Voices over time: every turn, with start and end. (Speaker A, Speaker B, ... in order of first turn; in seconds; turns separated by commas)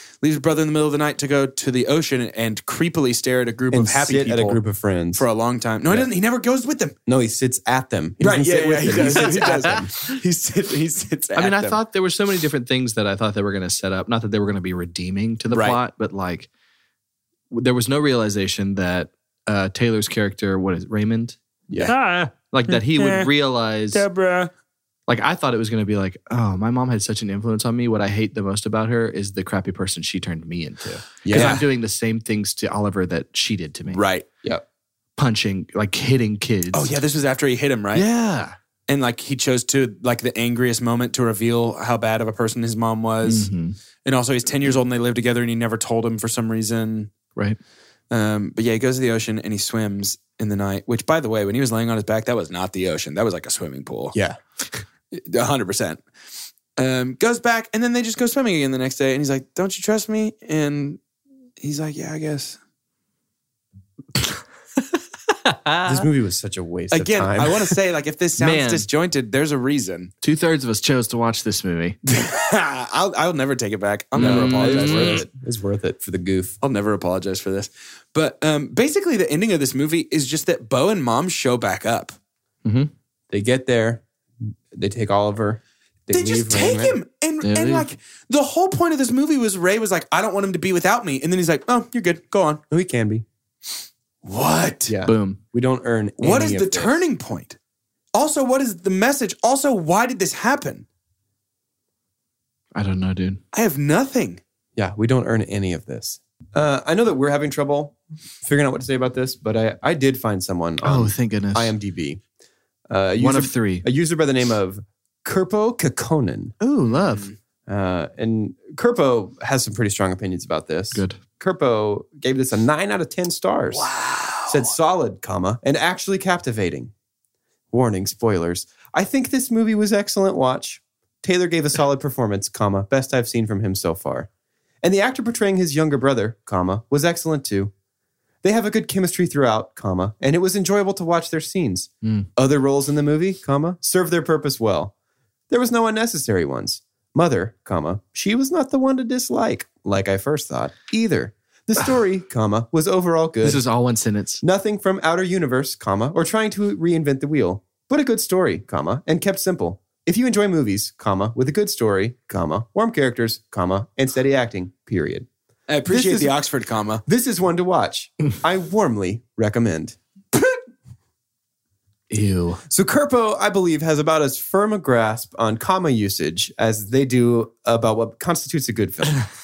Speaker A: 0.2-4.6, Speaker B: 3.7-5.2, Speaker A: 5.1-6.9, Speaker B: 7.1-9.9, Speaker A: 8.2-11.8, Speaker C: 9.1-9.7, Speaker C: 11.3-16.5, Speaker A: 15.5-15.8, Speaker C: 17.5-21.4, Speaker B: 21.7-21.9, Speaker D: 21.8-23.3, Speaker C: 22.5-24.0, Speaker D: 23.9-24.5, Speaker C: 25.1-34.0, Speaker B: 31.2-31.6, Speaker A: 31.3-31.6, Speaker A: 33.9-34.2, Speaker C: 35.2-37.0, Speaker A: 36.7-38.0, Speaker C: 37.9-38.5, Speaker A: 38.9-43.5, Speaker C: 43.2-43.8, Speaker A: 44.0-47.1, Speaker A: 48.1-54.2, Speaker B: 54.1-54.4, Speaker A: 55.1-56.0, Speaker A: 56.8-61.0, Speaker A: 61.6-62.6, Speaker C: 65.3-66.0, Speaker B: 65.8-67.7, Speaker A: 66.9-70.1, Speaker C: 68.4-68.8, Speaker C: 70.2-72.0, Speaker A: 72.1-75.2, Speaker B: 74.1-76.6, Speaker C: 74.2-75.2, Speaker A: 76.6-82.2, Speaker C: 82.6-82.9, Speaker B: 83.3-87.0, Speaker A: 86.1-92.6, Speaker C: 87.4-87.9, Speaker B: 92.7-93.2, Speaker A: 94.2-94.9, Speaker B: 94.9-96.9, Speaker C: 95.0-95.4, Speaker A: 96.2-97.6, Speaker A: 98.1-100.8, Speaker C: 102.7-103.4, Speaker A: 103.5-104.4, Speaker B: 104.8-112.2, Speaker C: 110.8-111.7, Speaker B: 112.9-116.5, Speaker C: 113.2-113.8, Speaker C: 116.6-117.3, Speaker A: 117.0-117.3, Speaker B: 117.7-123.9, Speaker C: 120.9-121.2, Speaker A: 123.7-124.7, Speaker B: 124.5-126.9, Speaker B: 127.7-134.3, Speaker B: 134.8-137.7, Speaker B: 138.4-144.9, Speaker B: 145.5-153.6, Speaker C: 153.4-154.4, Speaker B: 154.4-165.3, Speaker A: 165.7-167.0, Speaker B: 165.8-166.3, Speaker B: 167.1-170.0, Speaker C: 172.1-172.6, Speaker B: 172.7-179.3